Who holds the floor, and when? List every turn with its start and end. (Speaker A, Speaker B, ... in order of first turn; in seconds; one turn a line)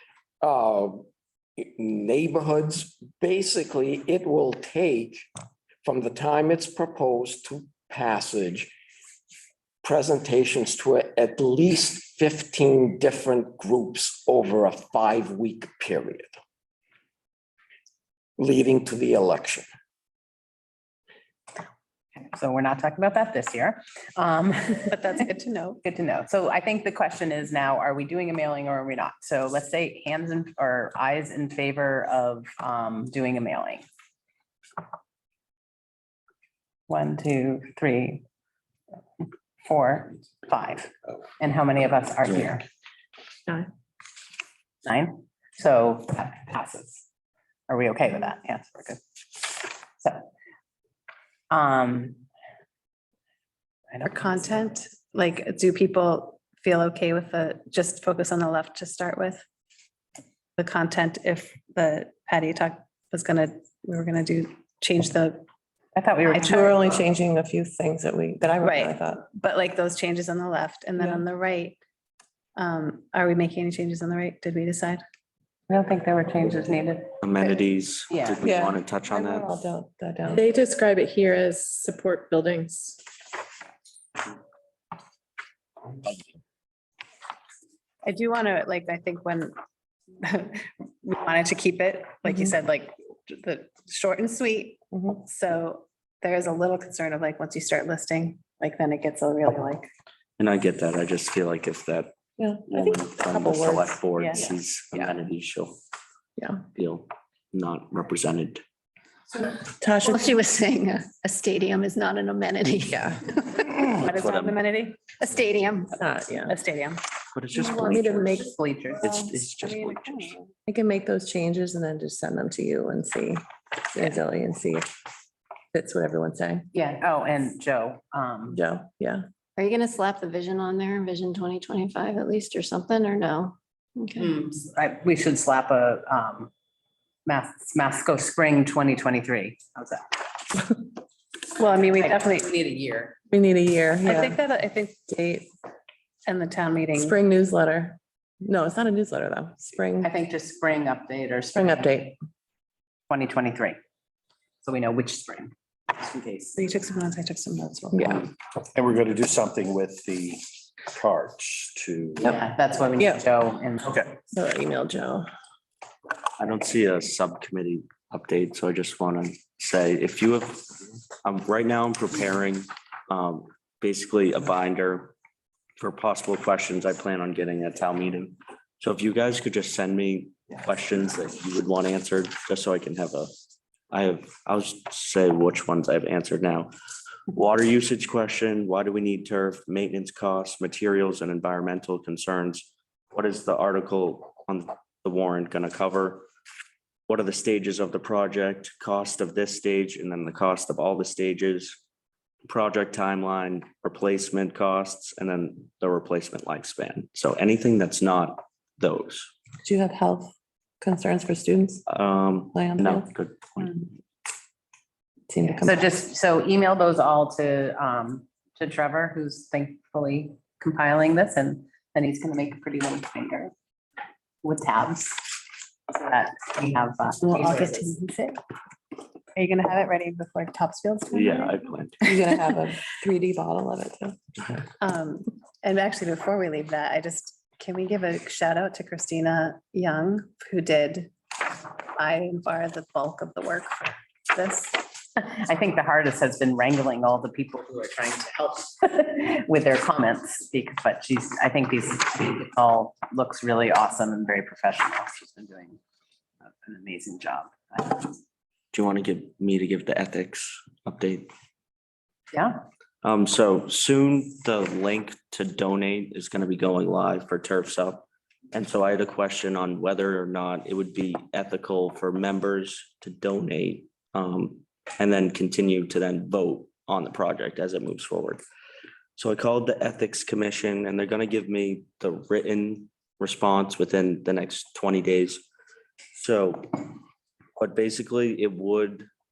Speaker A: 0.4-1.1
Speaker A: 1.6-5.2
Speaker A: 5.8-8.7
Speaker A: 9.8-16.4
Speaker A: 18.4-19.7
Speaker B: 22.2-25.0
Speaker C: 24.8-25.8
Speaker B: 25.8-33.8
Speaker B: 36.9-38.2
Speaker B: 39.6-42.6
Speaker B: 44.9-47.0
Speaker B: 47.7-50.3
Speaker B: 51.5-52.2
Speaker B: 53.9-54.4
Speaker C: 54.0-59.4
Speaker C: 60.6-65.5
Speaker B: 66.0-66.8
Speaker C: 66.2-66.8
Speaker D: 66.4-69.2
Speaker C: 68.6-71.8
Speaker D: 71.0-71.2
Speaker C: 72.6-75.0
Speaker B: 75.7-77.2
Speaker E: 77.2-79.5
Speaker B: 78.1-78.4
Speaker D: 78.4-80.5
Speaker F: 80.5-82.9
Speaker C: 88.0-89.5
Speaker C: 90.2-99.9
Speaker D: 94.9-95.2
Speaker E: 100.4-102.2
Speaker D: 102.4-104.5
Speaker E: 102.7-105.8
Speaker D: 106.4-106.6
Speaker E: 106.7-108.6
Speaker G: 109.4-114.0
Speaker D: 109.8-110.2
Speaker E: 114.0-114.6
Speaker C: 114.0-115.1
Speaker G: 115.1-116.0
Speaker D: 116.0-116.5
Speaker C: 116.5-117.0
Speaker E: 117.3-118.4
Speaker B: 117.8-119.1
Speaker D: 117.9-118.5
Speaker E: 119.0-120.4
Speaker C: 119.6-120.4
Speaker D: 120.7-124.9
Speaker D: 125.7-126.7
Speaker B: 126.7-128.6
Speaker D: 128.5-129.2
Speaker G: 129.6-134.3
Speaker B: 134.2-136.5
Speaker B: 137.3-140.2
Speaker C: 141.6-142.5
Speaker B: 141.8-143.2
Speaker D: 143.3-144.4
Speaker C: 144.0-145.0
Speaker D: 145.1-145.5
Speaker C: 146.3-147.2
Speaker D: 146.9-150.1
Speaker B: 150.0-151.9
Speaker D: 151.6-152.2
Speaker B: 153.1-153.8
Speaker B: 154.6-156.6
Speaker C: 156.6-158.2
Speaker D: 157.9-158.3
Speaker H: 158.7-162.3
Speaker B: 162.2-163.9
Speaker D: 163.0-163.2
Speaker H: 163.8-164.2
Speaker D: 164.3-165.3
Speaker E: 166.4-170.7
Speaker E: 171.2-175.1
Speaker E: 175.8-183.3
Speaker E: 183.9-186.7
Speaker E: 187.3-196.3
Speaker E: 197.1-201.8
Speaker E: 202.5-209.3
Speaker D: 209.6-211.8
Speaker E: 211.9-213.9
Speaker D: 212.5-213.1
Speaker D: 215.3-215.8
Speaker B: 215.6-223.5
Speaker B: 224.4-225.3
Speaker B: 225.9-227.9
Speaker C: 227.2-228.4
Speaker C: 229.3-232.1
Speaker E: 231.1-232.1
Speaker D: 232.1-234.2
Speaker C: 234.8-241.1
Speaker C: 242.0-244.8
Speaker B: 245.2-255.8
Speaker B: 256.6-258.1
Speaker E: 258.7-261.3
Speaker B: 262.3-262.6
Speaker E: 263.0-278.4
Speaker E: 279.2-285.4
Speaker E: 286.1-286.9
Speaker E: 287.6-289.1